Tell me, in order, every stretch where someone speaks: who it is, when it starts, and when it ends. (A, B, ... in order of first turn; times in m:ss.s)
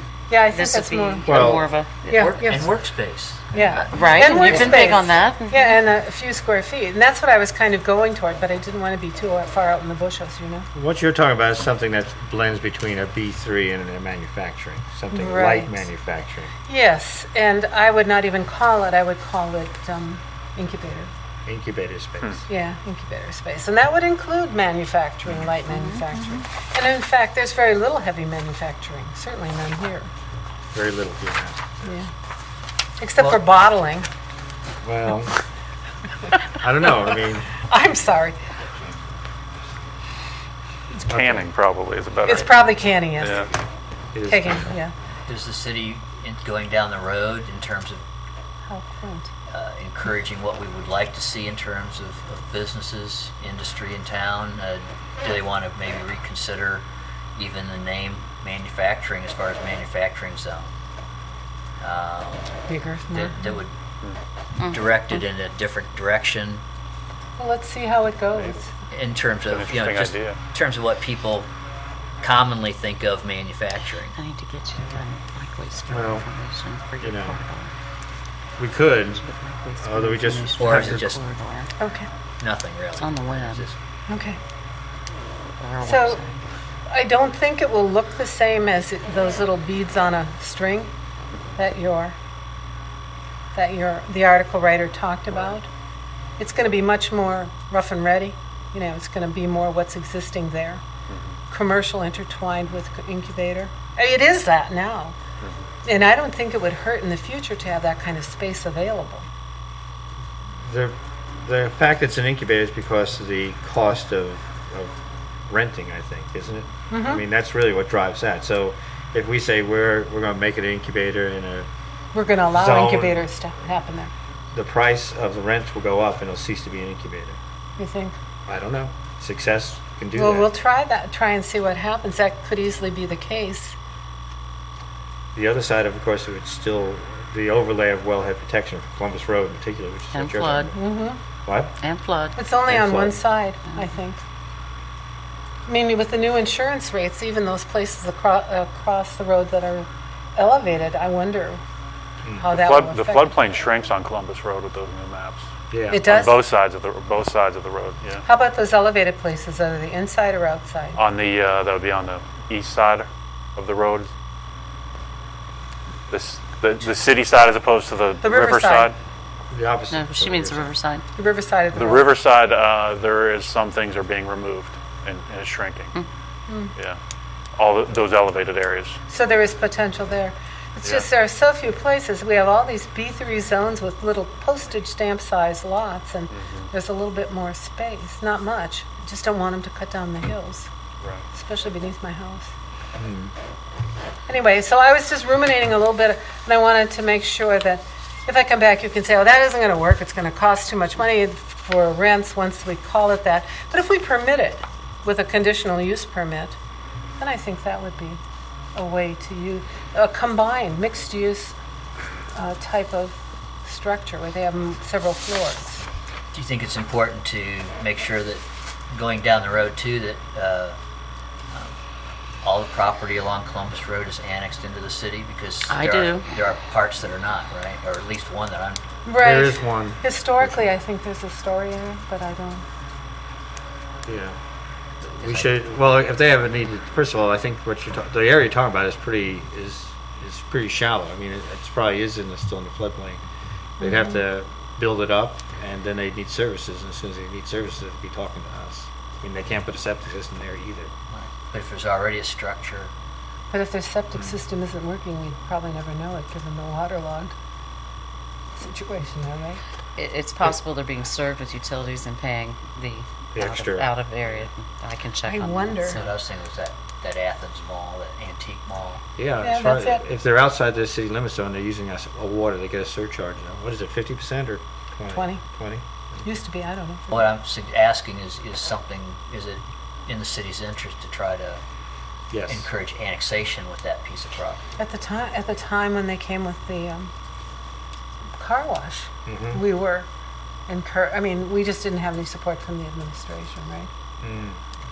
0:00.3-0:02.7 A
0:00.5-0:02.6 B
0:01.2-0:01.7 C
0:02.2-0:04.9 D
0:03.5-0:10.7 A
0:03.9-0:05.7 B
0:10.7-0:16.5 C
0:15.1-0:15.9 A
0:16.7-0:21.1 A
0:21.5-0:22.4 C
0:22.5-0:30.1 A
0:25.7-0:26.4 B
0:30.7-0:31.9 C
0:31.8-0:32.1 A
0:33.0-0:34.1 A
0:34.8-0:35.4 C
0:36.5-0:37.5 C
0:37.6-0:38.4 A
0:41.0-0:42.5 E
0:41.1-0:41.4 C
0:42.2-0:43.5 A
0:43.2-0:43.4 E
0:44.1-0:44.7 C
0:44.2-0:44.9 A
0:45.3-0:48.0 D
0:48.6-0:49.3 A
0:49.5-1:00.7 D
1:01.8-1:02.5 D
1:02.7-1:03.6 A
1:03.1-1:03.7 D
1:04.6-1:06.6 D
1:07.4-1:08.7 A
1:08.9-1:11.5 D
1:09.4-1:10.4 E
1:12.2-1:14.2 D
1:14.2-1:17.7 B
1:15.9-1:16.3 C
1:17.0-1:17.4 C
1:18.6-1:19.2 C
1:19.1-1:21.7 B
1:19.8-1:21.1 C
1:20.6-1:21.2 D
1:21.8-1:22.1 A
1:22.4-1:23.8 D
1:23.0-1:23.6 B
1:24.1-1:24.4 A
1:25.6-1:26.4 B
1:25.8-1:26.2 A
1:26.9-1:30.9 A
1:31.6-1:32.2 A
1:33.5-1:35.7 A
1:36.4-1:40.8 A
1:41.5-1:45.2 A
1:45.8-1:49.2 A
1:50.6-1:54.9 C
1:55.5-2:01.7 C
1:56.9-1:57.2 A
2:02.1-2:04.1 A
2:02.5-2:03.3 C
2:04.5-2:07.4 C
2:07.8-2:08.2 A
2:08.5-2:10.5 C
2:10.1-2:13.8 A
2:15.3-2:20.7 C
2:20.1-2:20.7 B
2:20.7-2:21.2 A
2:21.4-2:21.7 C
2:21.8-2:22.4 B
2:22.4-2:24.2 A
2:22.7-2:23.2 C
2:25.7-2:31.6 A
2:32.4-2:33.3 A
2:32.4-2:38.2 E
2:35.7-2:36.0 C
2:35.9-2:36.4 A
2:38.2-2:41.0 A
2:41.0-2:44.1 E
2:46.1-2:48.9 E
2:48.2-2:48.9 A
2:49.5-2:50.7 C
2:49.9-2:51.0 B
2:51.1-2:52.1 A
2:51.7-2:55.9 E
2:56.5-2:56.7 A
2:57.6-2:59.0 E
2:59.1-3:10.7 A
3:00.8-3:01.1 E
3:06.3-3:06.7 E
3:11.3-3:12.5 A
3:13.0-3:13.3 C
3:14.3-3:26.6 A
3:27.2-3:28.2 A
3:28.7-3:31.5 A
3:32.3-3:35.8 A
3:36.3-3:40.8 D
3:42.4-3:48.8 D
3:45.7-3:46.4 B
3:49.0-3:52.6 A
3:49.2-3:50.5 C
3:54.0-3:54.4 C
3:55.0-4:03.2 C
3:55.2-3:55.5 D
4:03.8-4:10.9 C
4:03.8-4:04.2 A
4:11.1-4:12.9 D
4:13.5-4:17.3 A
4:18.6-4:19.6 A
4:20.0-4:26.2 B
4:23.4-4:23.9 C
4:25.2-4:26.0 A
4:25.9-4:29.0 D
4:29.2-4:35.8 C
4:29.4-4:30.0 A
4:35.1-4:35.4 A
4:36.2-4:37.3 A
4:37.1-4:41.6 D
4:42.3-4:42.7 C
4:42.5-4:44.6 D
4:44.8-4:47.1 A
4:48.4-4:50.1 A
4:49.2-4:49.6 C
4:50.7-4:53.9 A
4:54.2-4:54.6 C